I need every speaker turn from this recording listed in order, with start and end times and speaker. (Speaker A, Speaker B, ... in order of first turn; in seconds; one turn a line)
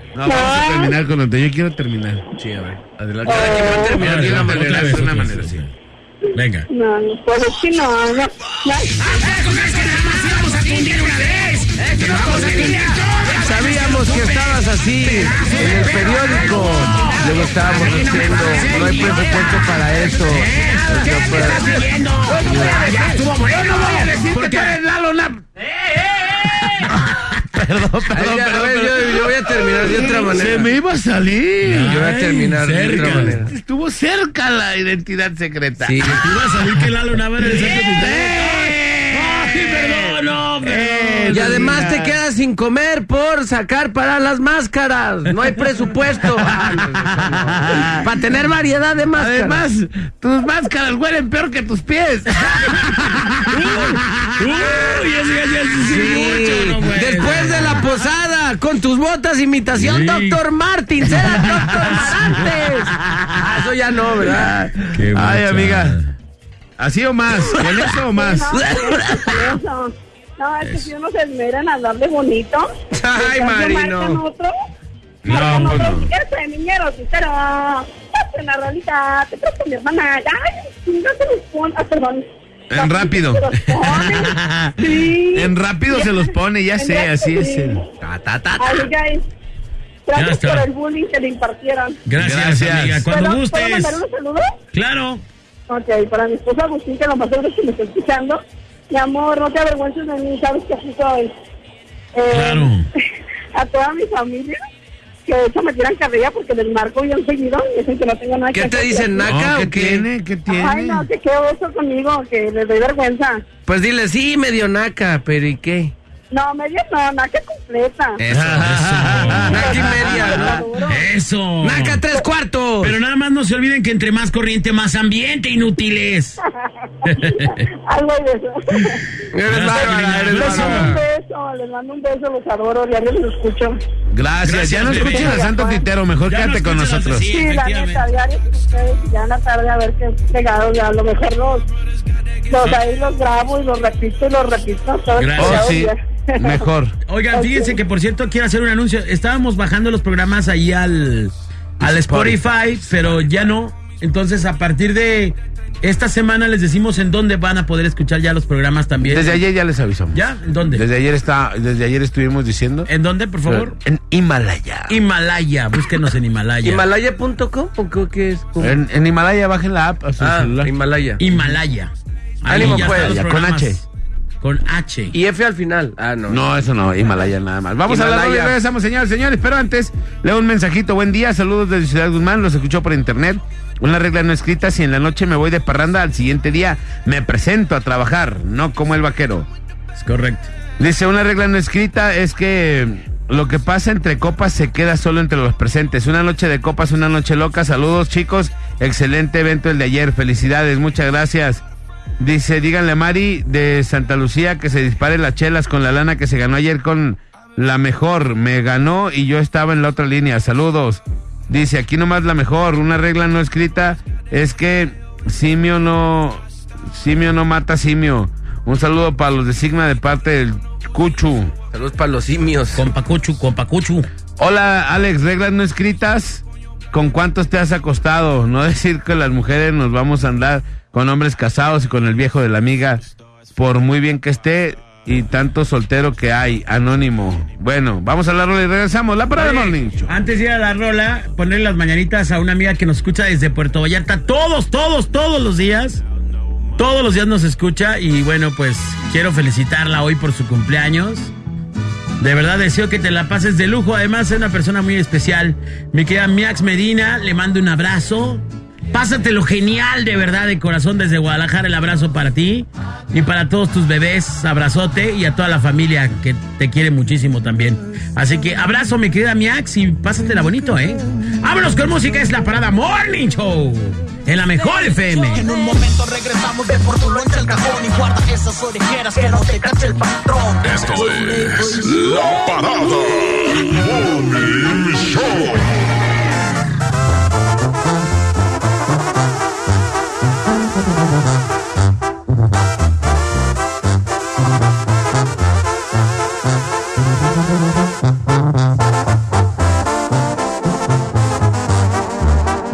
Speaker A: 0.1-2.2
Speaker B: 0.2-0.9
Speaker C: 2.4-5.0
Speaker B: 3.3-3.8
Speaker A: 3.5-5.6
Speaker D: 4.0-5.7
Speaker D: 6.3-6.7
Speaker B: 6.7-9.3
Speaker D: 9.0-24.8
Speaker C: 11.8-12.8
Speaker C: 13.3-21.6
Speaker A: 18.5-19.4
Speaker A: 21.4-21.7
Speaker A: 22.2-25.4
Speaker C: 22.4-23.0
Speaker D: 25.7-27.1
Speaker A: 26.5-31.9
Speaker C: 28.1-30.7
Speaker D: 31.6-33.4
Speaker C: 31.8-33.5
Speaker A: 33.4-36.9
Speaker C: 35.8-36.2
Speaker D: 36.1-41.8
Speaker A: 37.4-42.1
Speaker C: 41.3-49.6
Speaker A: 46.6-48.0
Speaker A: 49.1-55.0
Speaker D: 52.5-52.8
Speaker D: 53.4-57.8
Speaker C: 55.8-64.5
Speaker D: 59.7-60.4
Speaker D: 61.3-62.1
Speaker A: 61.5-62.3
Speaker A: 62.9-63.6
Speaker A: 64.2-66.0
Speaker D: 64.9-66.1
Speaker A: 66.8-68.7
Speaker B: 68.1-74.5
Speaker D: 70.6-70.9
Speaker C: 72.9-74.2
Speaker A: 75.2-76.1
Speaker B: 75.2-87.8
Speaker D: 75.3-75.9
Speaker A: 82.7-87.8
Speaker C: 88.0-88.8
Speaker B: 88.6-89.2
Speaker B: 90.1-92.0
Speaker D: 90.2-90.7
Speaker D: 92.1-94.0
Speaker A: 92.2-93.0
Speaker B: 93.0-94.5
Speaker D: 94.7-95.2
Speaker B: 95.7-101.3
Speaker B: 102.1-102.7
Speaker D: 102.3-102.9
Speaker B: 103.5-104.5
Speaker B: 105.2-109.3
Speaker C: 108.5-110.0
Speaker A: 109.2-111.0
Speaker B: 110.5-113.4
Speaker C: 113.7-115.9
Speaker B: 116.3-118.2
Speaker A: 118.2-120.6
Speaker D: 118.3-119.9
Speaker C: 119.5-120.6
Speaker B: 119.6-121.1
Speaker D: 120.9-122.0
Speaker C: 121.6-122.9
Speaker D: 122.8-126.4
Speaker D: 127.0-127.7
Speaker B: 127.1-129.0
Speaker C: 129.3-131.0
Speaker D: 129.4-131.0
Speaker B: 130.3-133.8
Speaker A: 134.1-137.3
Speaker D: 134.4-135.5
Speaker B: 134.8-135.8
Speaker D: 136.2-138.0
Speaker B: 137.3-141.7
Speaker B: 142.5-146.7
Speaker D: 145.2-145.8
Speaker A: 145.4-146.9
Speaker D: 147.1-159.4
Speaker B: 147.3-147.8
Speaker A: 151.8-153.3
Speaker A: 159.0-160.2
Speaker D: 160.1-160.8
Speaker A: 160.7-162.9
Speaker D: 162.9-163.8
Speaker A: 163.5-164.9
Speaker D: 164.9-166.8
Speaker C: 166.6-168.8
Speaker A: 168.6-170.7
Speaker C: 170.2-171.2
Speaker D: 171.2-171.9
Speaker D: 172.4-173.8
Speaker C: 172.5-173.2
Speaker A: 172.5-173.8
Speaker D: 174.4-175.1
Speaker C: 175.1-176.4
Speaker A: 176.3-189.5
Speaker C: 177.9-178.6
Speaker D: 190.0-190.5
Speaker A: 190.8-201.6
Speaker A: 202.2-221.5
Speaker C: 221.7-222.8
Speaker D: 222.8-224.1
Speaker A: 224.4-233.0
Speaker A: 233.6-240.1
Speaker D: 239.3-246.0
Speaker D: 246.8-251.3
Speaker D: 252.2-275.4
Speaker E: 275.3-282.5
Speaker F: 280.6-285.6
Speaker E: 284.0-285.4